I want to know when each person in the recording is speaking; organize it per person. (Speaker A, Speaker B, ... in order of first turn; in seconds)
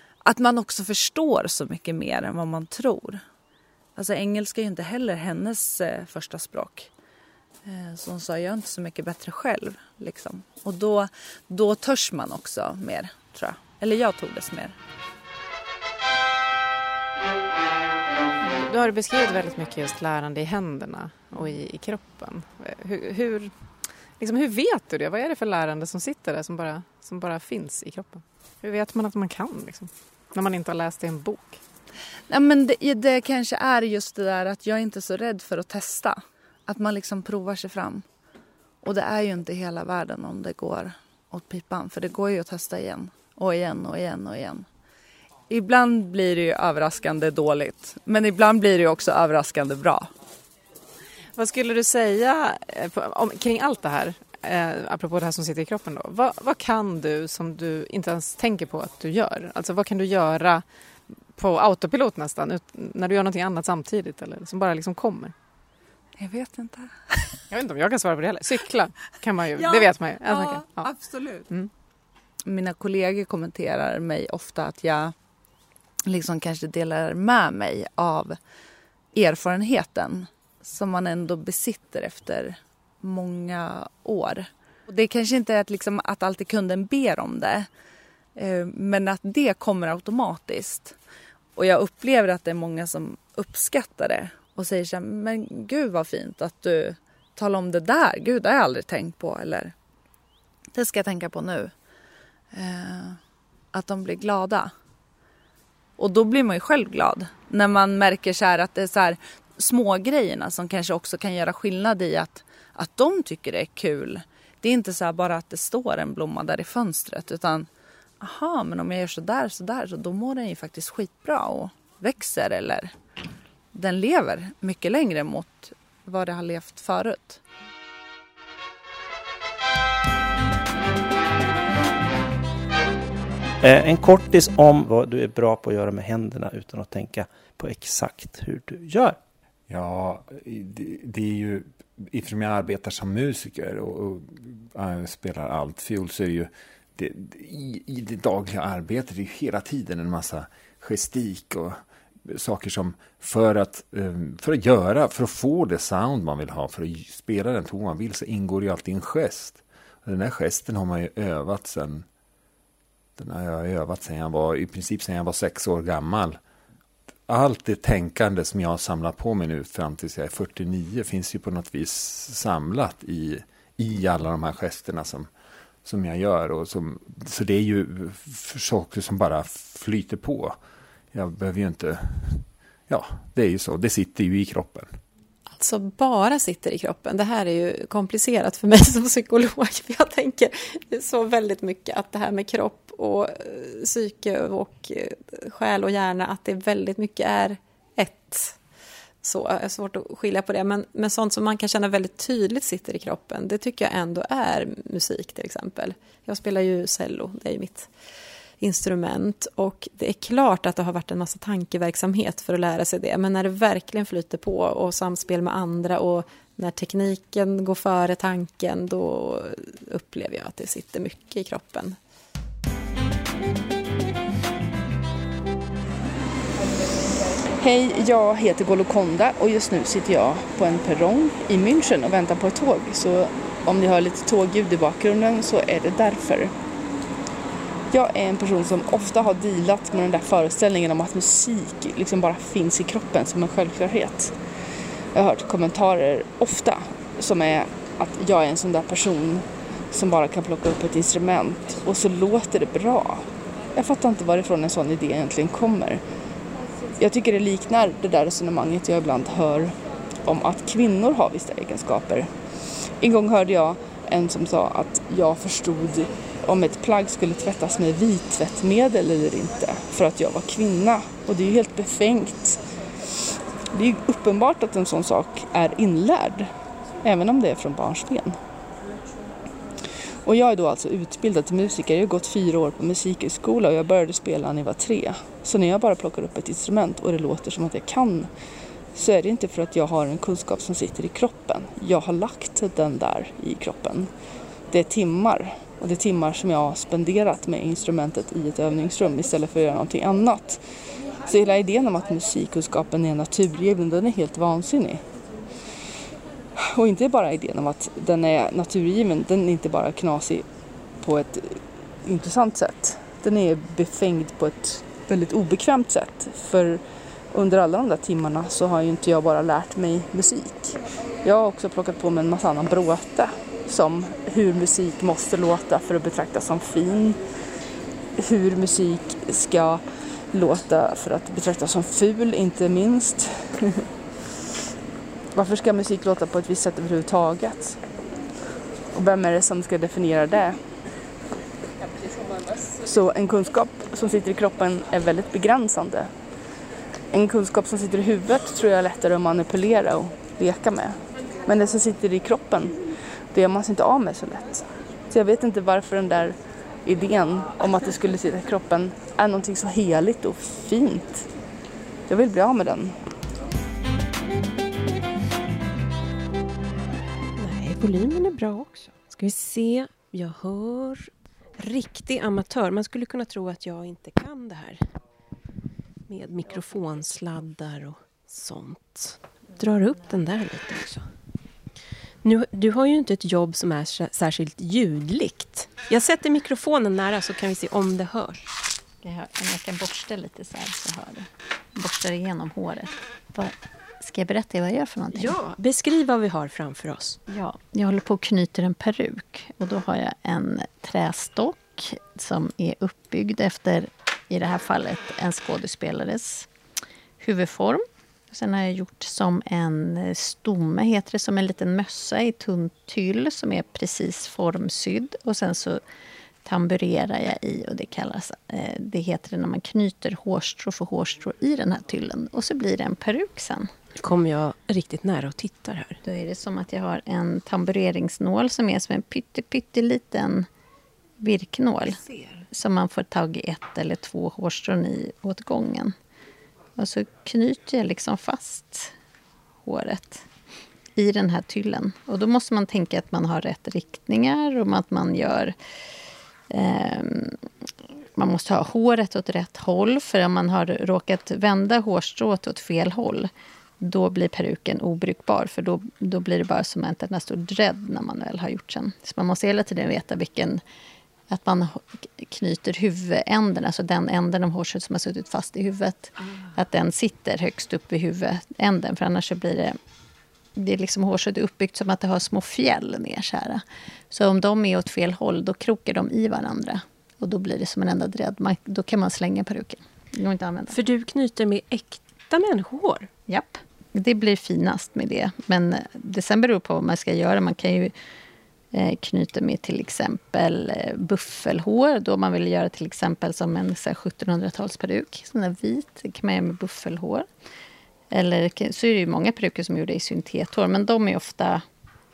Speaker A: 0.2-3.2, 4.0-6.9, 7.7-14.8, 32.3-38.0, 38.8-44.6, 45.5-50.1, 66.2-67.4, 69.6-71.5, 72.5-75.1, 76.1-78.4, 79.1-87.7, 88.4-91.0, 91.6-99.7, 100.8-101.7, 102.5-103.2, 103.7-104.7, 106.0-117.7, 118.2-122.9, 123.7-127.4
Speaker B: 18.4-23.5, 24.2-31.6, 51.4-60.6, 61.4-65.3, 67.5-70.9
Speaker C: 133.6-139.2
Speaker D: 139.7-162.1, 163.2-166.4, 167.3-175.3, 175.8-180.6, 181.1-185.0
Speaker E: 185.6-198.6, 199.2-207.9, 208.6-222.0
Speaker F: 227.6-236.5, 237.9-256.0, 257.0-262.4, 263.0-272.9, 273.7-278.4, 280.2-288.3, 288.9-294.1, 294.7-305.0, 306.6-310.5, 311.0-327.2, 328.2-333.8, 335.3-337.8, 338.9-340.8, 342.8-346.1, 347.1-361.3, 362.1-363.0
Speaker G: 367.4-375.0, 376.1-381.1, 382.2-388.5, 395.1-397.2, 424.0-426.0, 480.7-483.1
Speaker H: 389.0-395.4, 397.3-406.5, 407.2-415.8, 416.4-423.7, 426.0-430.5, 431.2-435.9, 436.8-438.9, 439.6-440.3, 441.0-445.6, 446.5-447.4, 448.2-453.3, 453.8-460.6, 461.3-469.8, 470.6-480.8, 483.3-487.9, 488.7-497.3, 498.1-501.6